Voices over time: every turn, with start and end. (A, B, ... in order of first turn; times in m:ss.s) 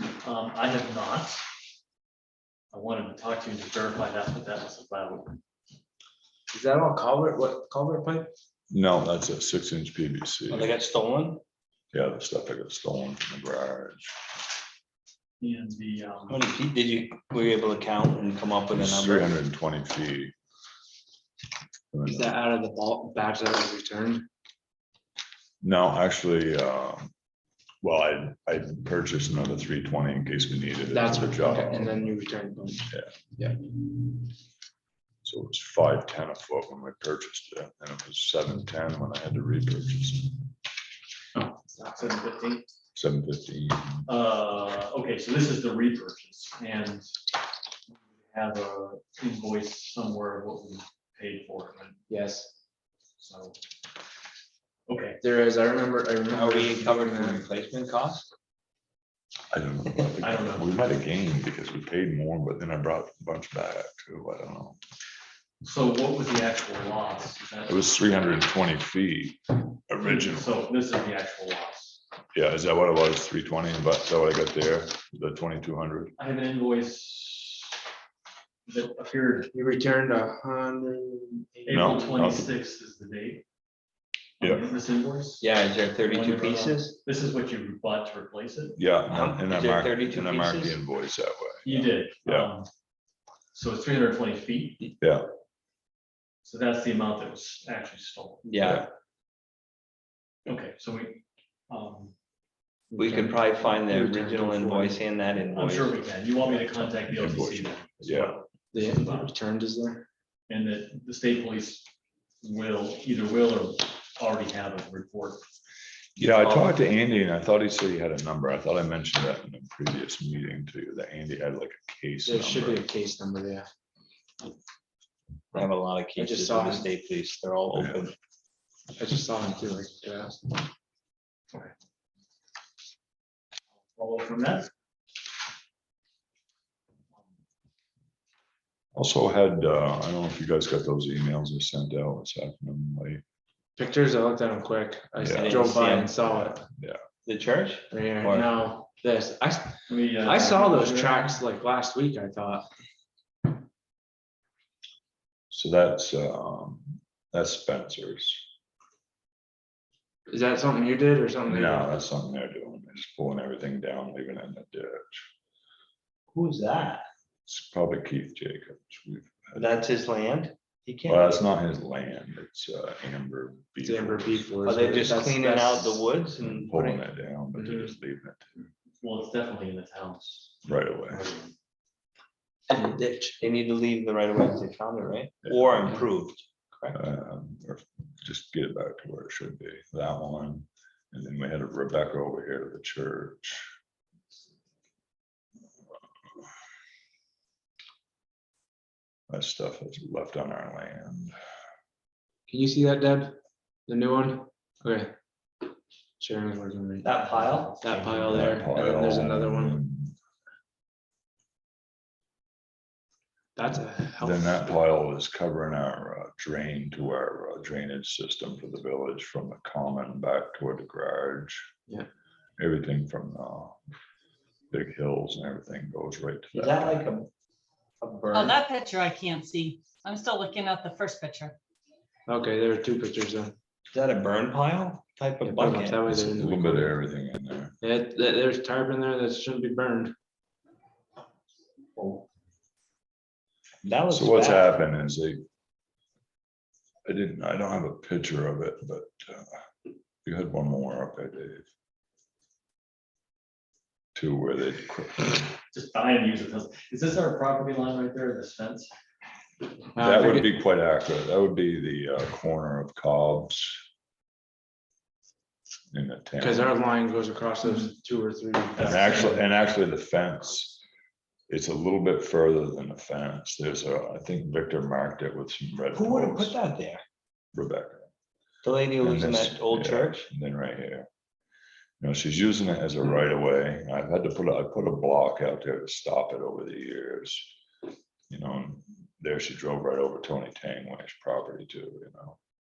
0:00.2-0:01.4 A
0:02.7-0:05.4 A
0:06.5-0:08.3 B
0:08.7-0:10.8 C
0:10.5-0:11.4 D
0:11.9-0:14.2 C
0:15.4-0:16.4 A
0:16.3-0:19.3 D
0:18.7-0:20.3 C
0:21.9-0:22.3 C
0:22.0-0:24.3 B
0:25.6-0:27.1 C
0:27.8-0:32.1 C
0:30.9-0:33.6 B
0:32.9-0:33.1 C
0:35.2-0:40.3 C
0:41.4-0:42.1 B
0:41.9-0:42.6 A
0:42.9-0:44.1 C
0:44.0-0:47.1 A
0:47.9-0:52.0 A
0:52.1-0:52.5 B
0:53.2-0:53.6 A
0:54.9-0:55.2 A
0:55.2-0:57.4 B
0:56.3-0:58.3 D
0:59.5-1:04.8 C
1:00.2-1:00.9 A
1:05.6-1:08.4 A
1:07.7-1:10.6 C
1:10.0-1:12.0 A
1:12.3-1:16.2 C
1:16.2-1:17.8 A
1:18.7-1:19.5 A
1:19.5-1:22.3 B
1:21.6-1:23.4 A
1:21.7-1:22.5 C
1:24.4-1:28.8 A
1:24.4-1:24.7 C
1:25.4-1:27.0 D
1:28.8-1:32.5 C
1:29.1-1:30.8 D
1:31.6-1:32.7 A
1:33.5-1:34.9 A
1:35.0-1:35.3 C
1:36.4-1:38.4 A
1:38.4-1:38.9 D
1:38.6-1:38.9 C
1:40.4-1:42.1 A
1:42.9-1:45.0 B
1:43.0-1:46.0 D
1:45.5-1:49.3 A
1:46.5-1:48.3 C
1:48.7-1:50.0 B
1:50.5-1:51.9 A
1:52.4-1:55.4 A
1:56.2-2:02.9 C
1:56.4-1:56.8 D
2:02.2-2:03.7 B
2:05.5-2:08.1 D
2:06.2-2:06.9 B
2:07.7-2:08.0 C
2:09.0-2:10.7 B
2:13.9-2:14.7 A
2:18.9-2:23.2 C
2:23.8-2:26.6 B
2:25.2-2:27.0 C
2:25.3-2:26.1 D
2:27.2-2:28.5 D
2:27.9-2:32.7 B
2:28.4-2:28.7 A
2:29.9-2:31.4 A
2:35.5-2:38.4 C
2:40.3-2:42.0 B
2:41.5-2:45.2 C
2:46.3-2:47.1 D
2:47.5-2:49.9 C
2:49.5-2:51.4 D
2:51.1-2:54.6 C
2:53.8-2:56.0 B
2:54.6-2:57.0 D
2:56.4-2:58.5 C
2:57.6-2:57.9 B
2:59.0-3:01.5 A
3:00.6-3:01.2 C
3:02.7-3:07.0 D
3:05.4-3:06.0 C
3:06.9-3:13.7 C
3:19.3-3:21.3 C
3:22.5-3:25.1 B
3:26.2-3:27.1 B
3:27.0-3:27.7 D
3:27.2-3:28.7 A
3:27.8-3:29.8 B
3:28.3-3:30.1 C
3:33.6-3:34.7 B
3:34.2-3:41.7 C
3:42.6-3:43.8 C
3:44.7-3:47.1 C
3:46.5-3:47.3 D
3:48.0-3:48.6 D
3:48.3-3:51.6 E
3:52.3-3:53.5 B
3:53.9-3:56.0 D
3:55.4-3:57.0 B
3:56.0-3:57.8 C
3:57.8-4:00.1 B
4:02.0-4:02.2 D
4:03.8-4:04.7 D
4:04.1-4:05.4 C
4:07.0-4:09.6 C
4:10.2-4:11.7 C
4:14.1-4:15.5 C
4:15.7-4:18.9 A
4:19.9-4:20.5 B
4:20.0-4:23.8 C
4:25.9-4:26.8 C
4:26.4-4:29.3 B
4:28.8-4:29.4 A
4:28.8-4:30.8 C
4:31.5-4:36.5 C
4:35.9-4:37.0 D
4:37.5-4:38.1 C
4:38.6-4:40.3 D
4:39.0-4:41.1 C
4:42.0-4:47.5 C
4:48.3-4:52.4 C